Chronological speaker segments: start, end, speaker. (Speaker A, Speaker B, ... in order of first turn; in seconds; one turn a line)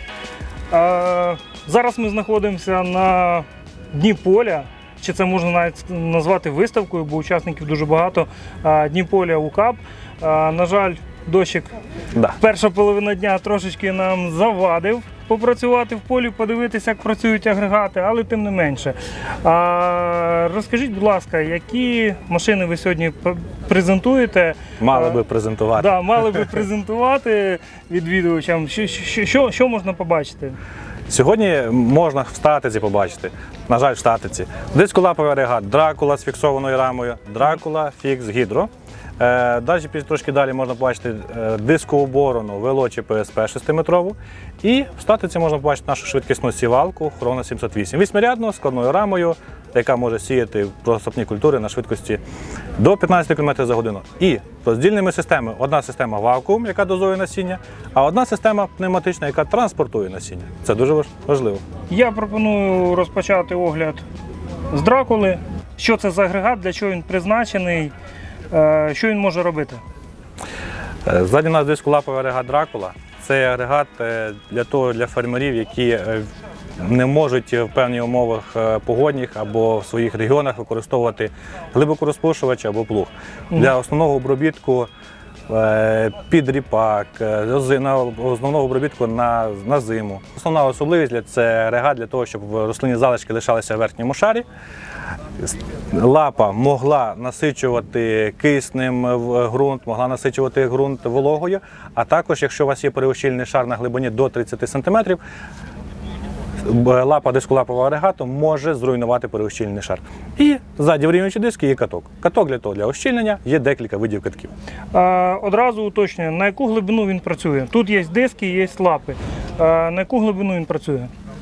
Speaker A: 0.7-11.7
Speaker A: 12.4-25.2
Speaker B: 24.8-26.4
Speaker A: 25.8-30.6
Speaker B: 31.1-52.2
Speaker B: 52.8-61.6
Speaker A: 61.9-64.0
Speaker A: 64.7-67.9
Speaker A: 68.5-69.8
Speaker B: 71.0-84.9
Speaker B: 85.5-94.4
Speaker B: 95.4-105.2
Speaker B: 106.6-114.5
Speaker A: 114.9-121.1